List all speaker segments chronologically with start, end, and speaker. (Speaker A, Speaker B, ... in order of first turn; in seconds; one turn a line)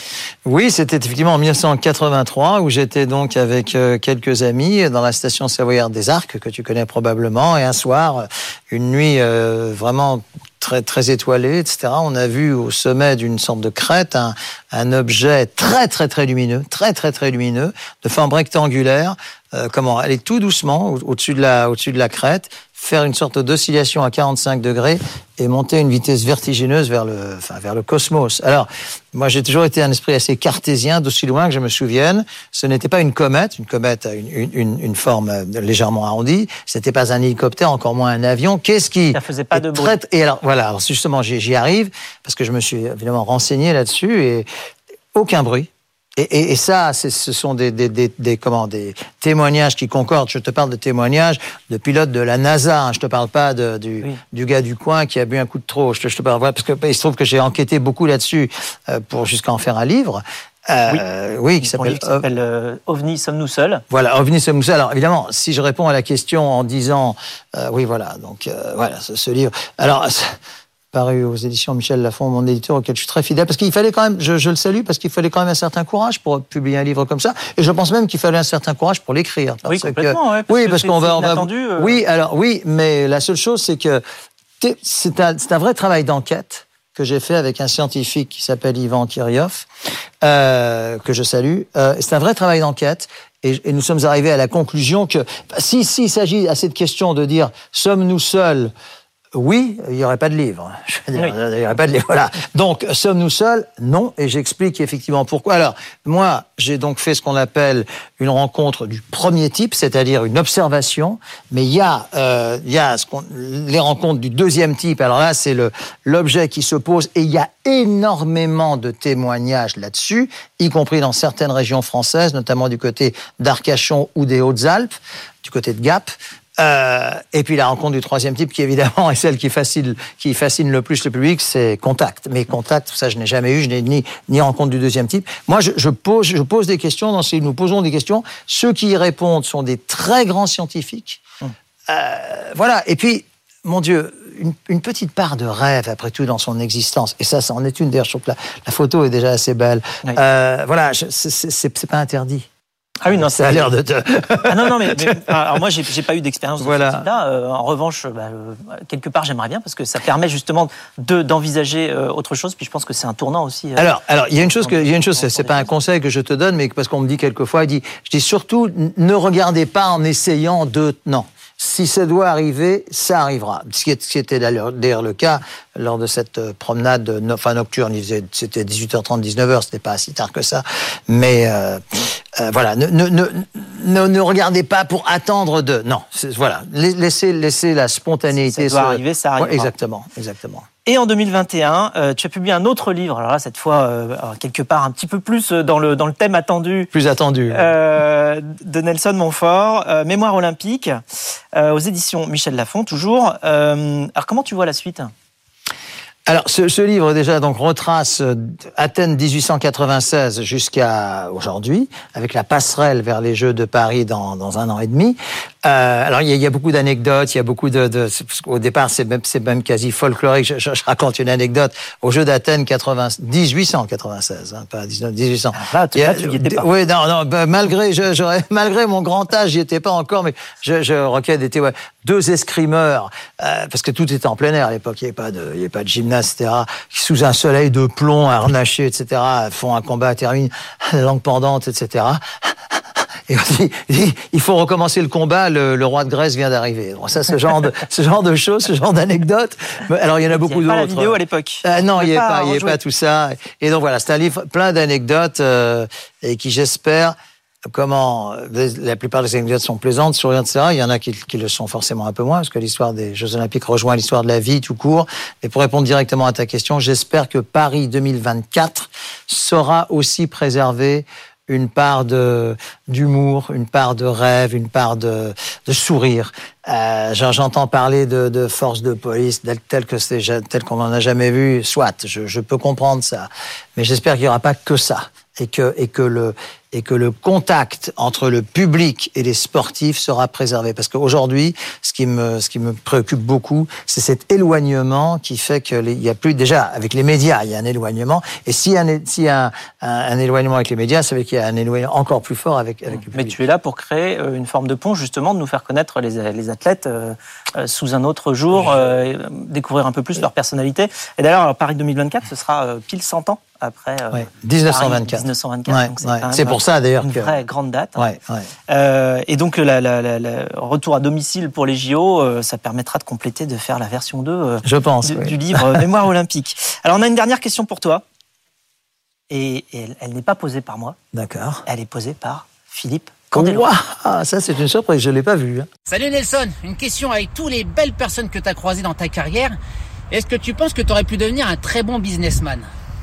Speaker A: 0.5-44.5
Speaker B: 39.1-40.0
Speaker A: 45.1-62.2
Speaker B: 61.6-63.8
Speaker A: 63.9-70.4
Speaker A: 70.9-84.0
Speaker B: 79.7-82.0
Speaker A: 84.6-89.7
Speaker A: 90.2-98.7
Speaker A: 99.3-141.2
Speaker A: 141.9-152.5
Speaker B: 153.0-153.7
Speaker A: 153.1-155.2
Speaker B: 154.4-165.7
Speaker A: 156.6-157.1
Speaker A: 163.8-190.7
Speaker B: 188.4-189.7
Speaker B: 190.8-196.9
Speaker A: 196.9-197.7
Speaker B: 197.5-201.0
Speaker B: 201.5-205.1
Speaker A: 206.3-257.1
Speaker B: 225.5-226.7
Speaker B: 250.3-252.8
Speaker A: 257.7-303.4
Speaker B: 303.1-318.0
Speaker A: 314.1-317.3
Speaker A: 318.0-318.5
Speaker B: 318.7-328.0
Speaker A: 324.6-325.9
Speaker B: 329.3-331.0
Speaker A: 331.1-331.6
Speaker B: 331.7-333.7
Speaker A: 333.3-335.7
Speaker C: 335.9-339.6
Speaker C: 340.1-342.7